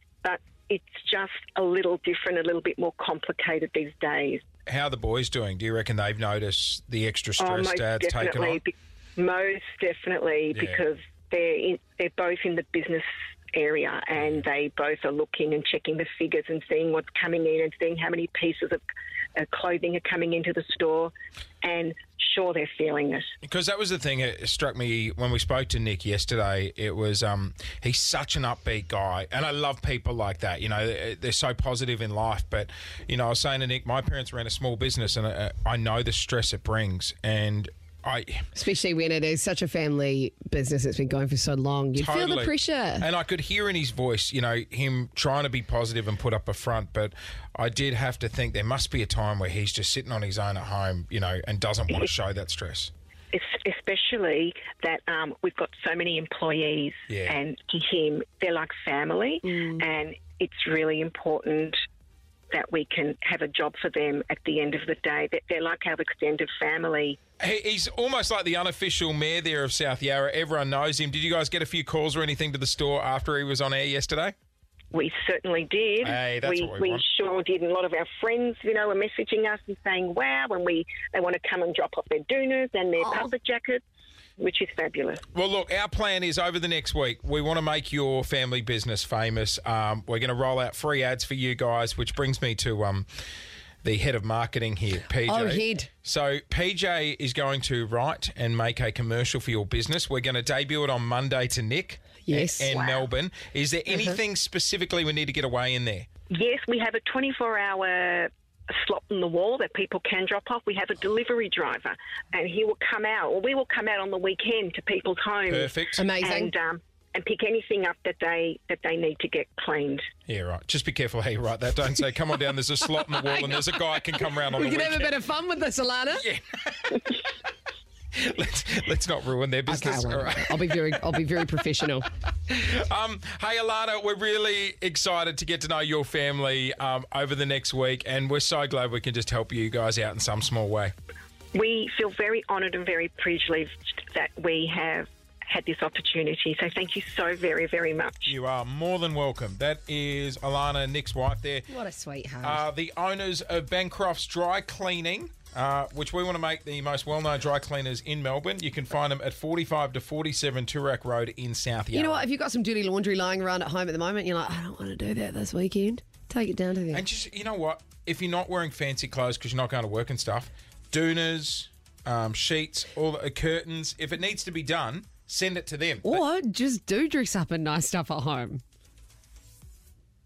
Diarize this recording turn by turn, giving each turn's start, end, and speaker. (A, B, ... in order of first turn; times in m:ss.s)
0:00.2-0:04.4 A
0:04.7-0:08.6 B
0:07.4-0:18.8 A
0:10.5-0:10.8 B
0:19.4-0:23.3 A
0:23.4-0:38.5 B
0:38.6-0:43.1 C
0:42.0-0:52.9 B
0:53.3-1:01.8 A
0:57.1-0:57.4 B
1:02.5-1:07.2 A
1:07.4-1:14.4 B
1:14.9-1:23.8 A
1:16.0-1:17.0 B
1:24.4-1:25.2 A
1:25.3-1:33.1 B
1:33.8-1:46.1 B
1:35.3-1:35.9 C
1:42.3-1:42.7 C
1:42.6-1:43.1 A
1:43.9-1:44.2 C
1:46.3-2:00.1 A
1:55.5-1:56.0 B
1:56.0-1:56.5 C
2:00.3-2:05.1 B
2:03.2-2:03.6 C
2:04.4-2:06.2 C
2:06.1-2:07.3 B
2:08.1-2:11.0 B
2:09.7-2:12.1 C
2:12.5-2:20.9 B
2:21.5-2:28.4 A
2:28.3-2:31.7 B
2:31.7-2:32.7 C
2:32.4-2:42.3 B
2:41.9-2:47.0 C
2:46.9-2:56.2 B
2:56.0-2:58.6 C